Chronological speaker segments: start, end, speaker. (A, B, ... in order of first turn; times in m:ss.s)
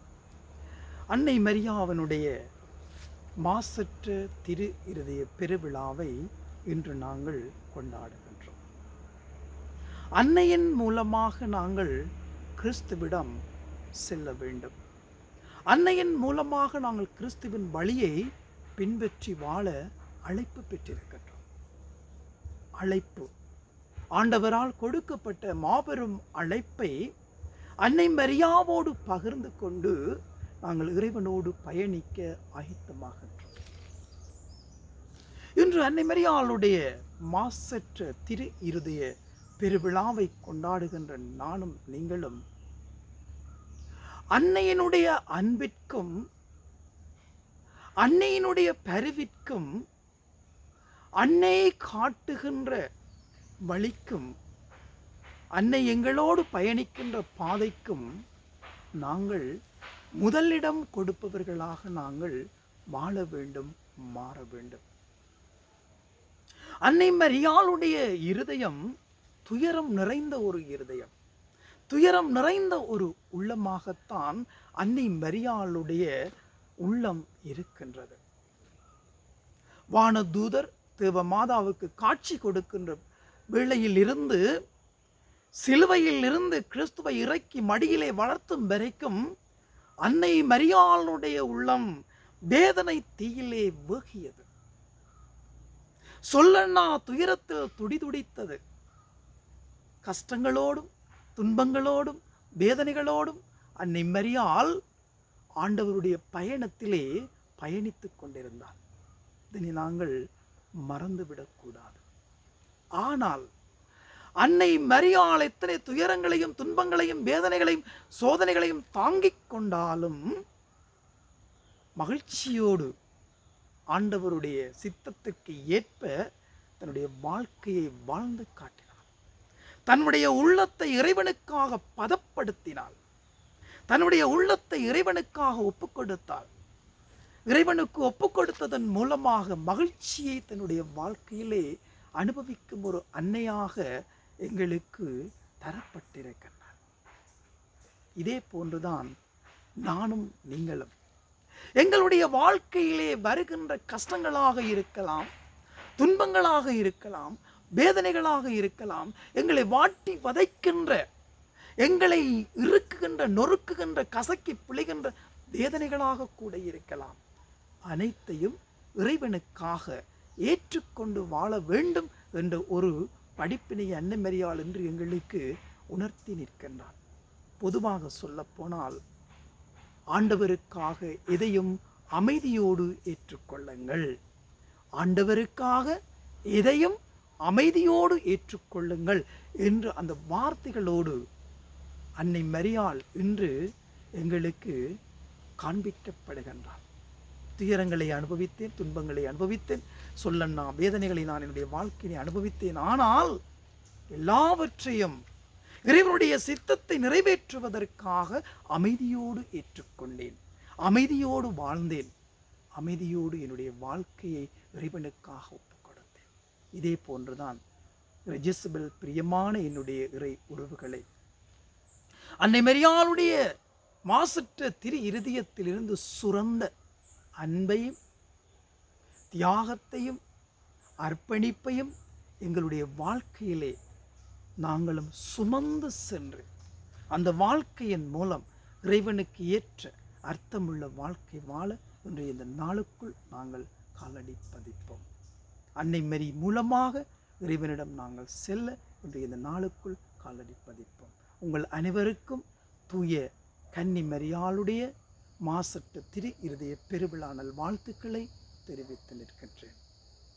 0:01.1-0:02.3 A
0:03.4-0:06.1 A
0:06.7-0:08.6 A
0:10.2-0:11.9 A
0:12.6-0:13.3 A
0:14.0-0:14.8 A
0:15.7-0:18.2 A
0:18.8-0:19.7 A
0:20.3-0:21.4 A
0:22.8-0:23.3 A
0:24.2-0:26.9 A
0:27.8-0:30.0 A
0:30.6-0:33.5 A
0:35.6-0:36.8 A
0:37.3-0:39.1 A
0:39.6-0:42.4 A
0:44.3-0:46.2 A
0:48.0-0:49.7 A
0:51.2-0:52.8 A
0:53.7-0:54.3 A
0:55.6-0:58.0 A
0:59.0-0:59.5 A
1:00.2-1:02.4 A
1:02.9-1:04.8 A
1:06.8-1:08.8 A
1:09.5-1:11.1 A
1:11.9-1:16.1 A
1:16.8-1:18.2 A
1:20.0-1:23.0 A
1:23.5-1:24.4 A
1:25.6-1:29.2 A
1:30.0-1:31.9 A
1:32.5-1:34.5 A
1:36.3-1:38.6 A
1:40.0-1:44.7 A
1:45.6-1:48.8 A
1:49.5-1:50.1 A
1:50.9-1:52.0 A
1:53.0-1:53.4 A
1:54.4-2:00.2 A
2:02.0-2:02.9 A
2:03.9-2:06.1 A
2:06.8-2:09.0 A
2:09.9-2:13.0 A
2:13.9-2:16.5 A
2:17.5-2:21.7 A
2:22.2-2:23.8 A
2:24.5-2:26.8 A
2:28.2-2:29.1 A
2:29.8-2:30.9 A
2:31.8-2:35.3 A
2:36.0-2:41.0 A
2:41.8-2:47.2 A
2:47.9-2:57.0 A
2:57.6-2:59.0 A
3:00.1-3:04.1 A
3:05.0-3:06.0 A
3:06.5-3:11.2 A
3:12.2-3:13.5 A
3:14.2-3:14.8 A
3:15.6-3:16.8 A
3:17.6-3:23.4 A
3:24.1-3:25.2 A
3:25.9-3:32.1 A
3:32.8-3:37.6 A
3:38.3-3:41.0 A
3:42.4-3:43.4 A
3:44.1-3:46.7 A
3:47.4-3:47.9 A
3:49.4-3:50.2 A
3:51.0-3:51.9 A
3:52.4-3:53.8 A
3:54.6-3:56.5 A
3:57.1-4:05.0 A
4:05.8-4:14.9 A
4:15.5-4:19.8 A